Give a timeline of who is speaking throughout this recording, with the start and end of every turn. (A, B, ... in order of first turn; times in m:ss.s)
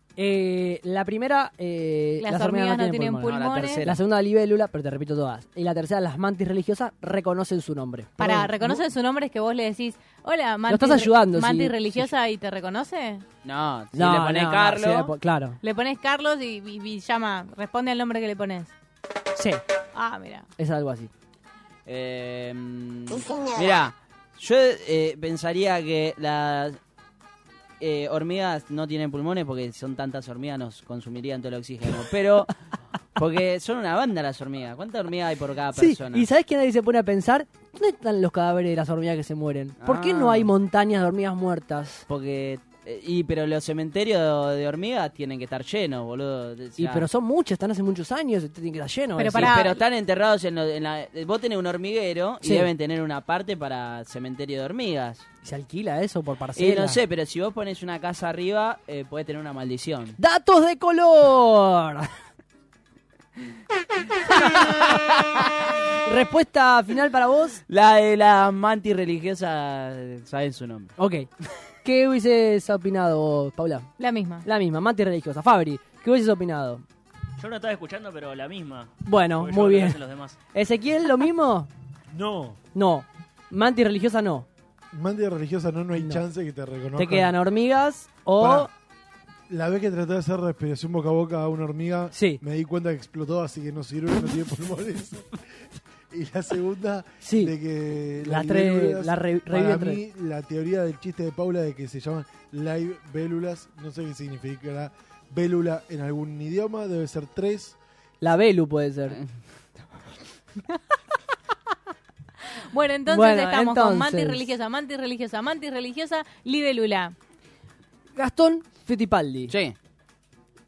0:00.2-0:08.8 A
0:02.2-0:03.9 B
0:03.2-0:04.0 C
0:08.2-0:13.2 B
0:10.7-0:12.1 A
0:13.4-0:15.1 C
0:13.9-0:15.6 A
0:15.6-0:18.7 B
0:19.3-0:19.6 A
0:19.9-0:20.5 B
0:20.6-0:21.1 A
0:21.8-0:26.8 C
0:27.8-0:32.5 C
0:33.2-0:36.3 C
0:35.7-0:42.0 A
0:39.8-0:40.5 C
0:42.1-0:47.1 C
0:46.8-0:49.6 A
0:49.2-0:49.8 B
0:49.3-0:55.2 C
0:52.4-0:52.7 A
0:55.4-0:57.0 A
0:56.5-1:00.2 C
1:00.2-1:02.1 A
1:04.4-1:05.0 A
1:04.6-1:05.5 C
1:06.0-1:07.6 A
1:07.7-1:10.9 C
1:11.0-1:11.3 A
1:11.8-1:13.9 A
1:14.0-1:14.4 B
1:14.4-1:16.8 A
1:17.4-1:20.4 D
1:19.0-1:20.0 A
1:20.5-1:21.7 A
1:22.1-1:22.6 E
1:22.7-1:24.4 A
1:24.9-1:27.4 E
1:27.0-1:28.7 A
1:28.4-1:28.7 E
1:29.5-1:47.8 E
1:32.1-1:32.4 A
1:37.2-1:37.5 A
1:38.2-1:40.0 A
1:48.2-1:49.2 A
1:52.7-1:57.1 B
1:53.1-1:54.4 A
1:58.1-1:59.5 A
1:59.5-1:59.8 C